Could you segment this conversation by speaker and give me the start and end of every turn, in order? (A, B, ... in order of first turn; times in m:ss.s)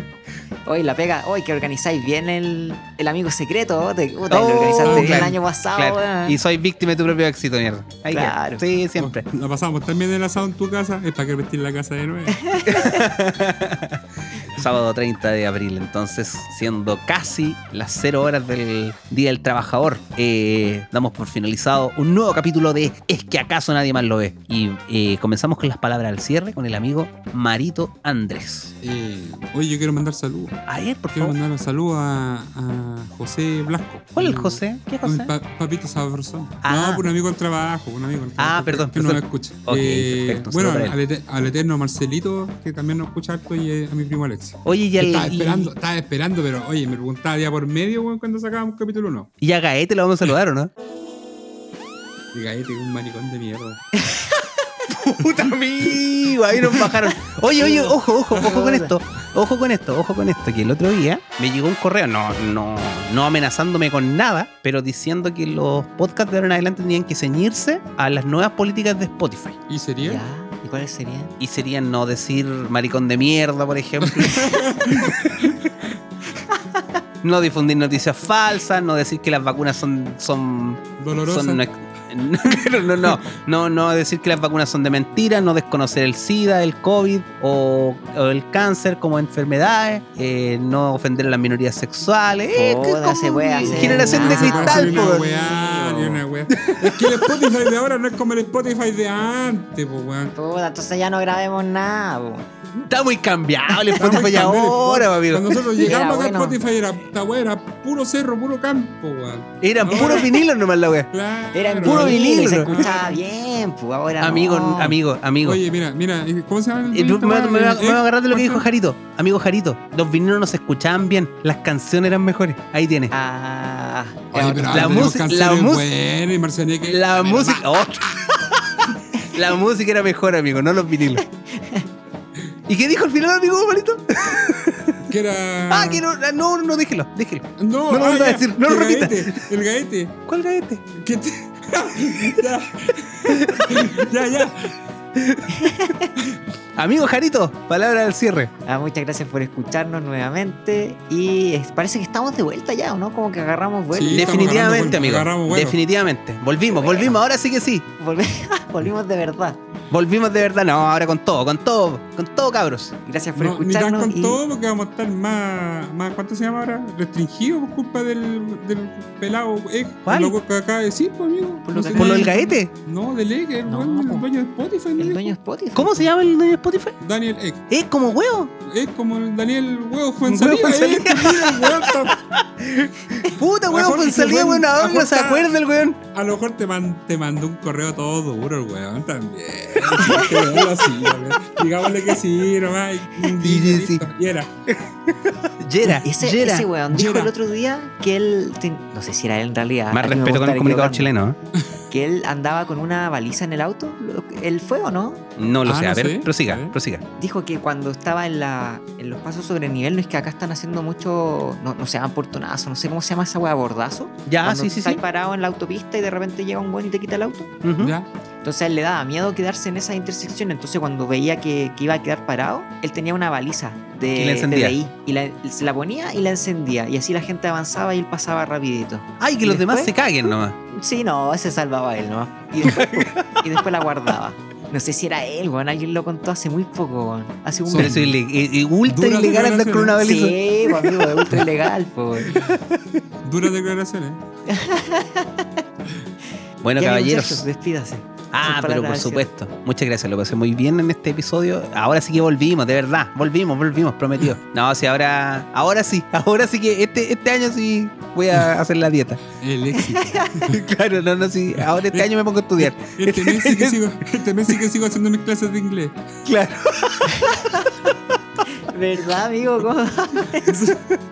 0:00.6-0:06.4 A
0:04.3-0:09.2 B
0:04.8-0:05.3 C
0:08.1-0:08.6 A
0:09.0-0:12.5 C
0:12.5-0:13.0 A
0:12.6-0:28.7 B
0:28.8-0:30.6 C
0:30.7-0:31.4 B
0:31.1-0:49.3 C
0:34.2-0:35.3 B
0:36.6-0:37.0 B
0:38.4-0:40.9 B
0:44.6-0:45.7 B
0:49.4-0:50.7 B
0:52.3-0:53.8 C
0:54.9-1:09.6 B
0:57.6-0:58.9 A
1:09.7-1:10.2 C
1:10.0-1:11.3 A
1:11.4-1:15.5 B
1:14.0-1:15.7 C
1:17.2-1:35.2 B
1:21.0-1:21.6 C
1:32.5-1:36.2 A
1:33.6-1:40.3 C
1:36.6-1:37.3 B
1:40.3-1:42.5 A
1:42.7-1:45.6 B
1:43.9-1:50.3 C
1:45.8-1:46.6 A
1:49.6-1:51.1 B
1:49.9-1:50.2 A
1:51.1-1:53.2 C
1:51.5-1:55.0 A
1:51.8-1:52.9 B
1:54.2-1:55.6 B
1:55.4-1:58.7 C
1:56.9-2:03.1 B
2:03.1-2:04.9 A
2:04.3-2:07.7 C
2:04.3-2:05.8 B
2:06.9-2:11.2 B
2:11.5-2:11.8 A
2:12.7-2:15.0 B
2:15.0-2:16.0 C
2:15.7-2:19.4 B
2:17.6-2:20.1 C
2:20.2-2:20.8 B
2:21.0-2:24.8 C
2:23.3-2:24.0 B
2:25.2-2:25.7 B
2:25.6-2:26.1 A
2:26.8-2:28.5 B
2:28.6-2:34.4 A
2:33.9-2:35.8 C
2:34.1-2:37.9 B
2:36.7-2:37.1 A
2:38.0-2:39.6 A
2:39.9-2:42.9 B
2:43.0-2:44.4 A
2:43.4-2:55.3 C
2:50.0-2:50.4 B
2:51.6-2:52.5 A
2:51.9-2:52.7 B
2:53.7-2:54.2 A
2:55.0-2:56.1 A
2:55.7-2:57.0 B
2:57.0-2:57.6 C
2:57.7-2:58.5 B
2:58.6-3:02.2 C
3:00.2-3:06.0 B
3:03.7-3:05.5 C
3:06.1-3:14.5 C
3:10.0-3:10.6 A
3:13.4-3:14.1 B
3:14.7-3:16.7 B
3:16.0-3:21.1 A
3:16.9-3:17.3 C
3:19.9-3:21.4 B
3:21.9-3:25.2 A
3:25.4-3:27.0 B
3:25.6-3:26.7 C
3:27.2-3:37.5 A
3:34.3-3:35.0 B
3:37.6-3:37.9 B
3:37.8-3:38.1 C
3:38.4-3:49.9 A
3:44.1-3:44.8 B
3:49.2-3:50.6 B
3:50.7-3:58.0 A
3:52.6-3:53.4 B
3:57.7-3:58.2 C
3:57.8-4:01.3 B
3:58.9-4:00.0 C
4:00.0-4:02.4 A
4:02.2-4:03.0 B
4:03.2-4:04.2 C
4:04.5-4:05.6 A
4:06.6-4:07.4 B
4:06.8-4:09.3 A
4:08.3-4:19.2 B
4:19.4-4:20.6 C
4:19.8-4:20.3 A
4:20.5-4:23.8 B
4:21.6-4:22.0 C
4:22.6-4:26.0 C
4:26.2-4:27.4 B
4:27.1-4:27.9 A
4:28.5-4:30.7 A
4:30.5-4:30.8 C